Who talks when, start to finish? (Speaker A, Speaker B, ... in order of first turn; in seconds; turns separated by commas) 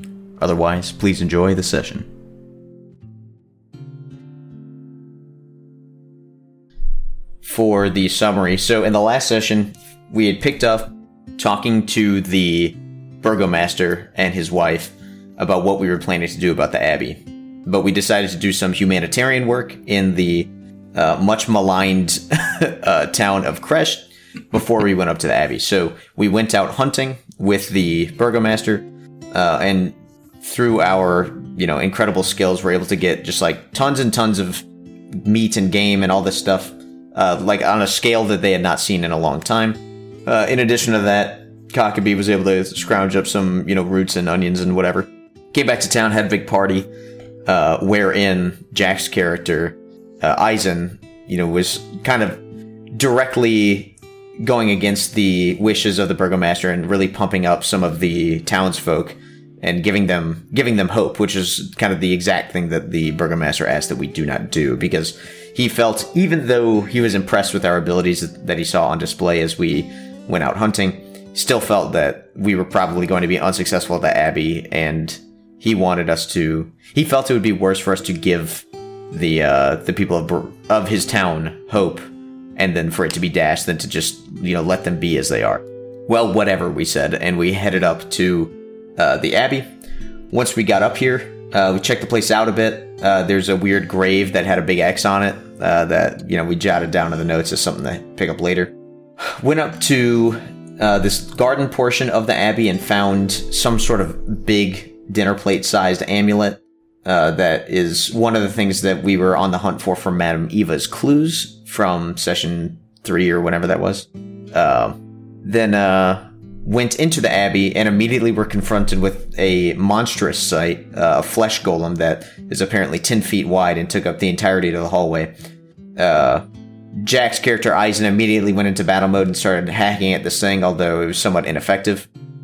Speaker A: 0.4-2.1, Speaker A: 7.4-46.9, Speaker A: 47.5-52.4, Speaker A: 52.9-82.0, Speaker A: 82.6-89.7, Speaker A: 90.3-125.3, Speaker A: 126.0-132.1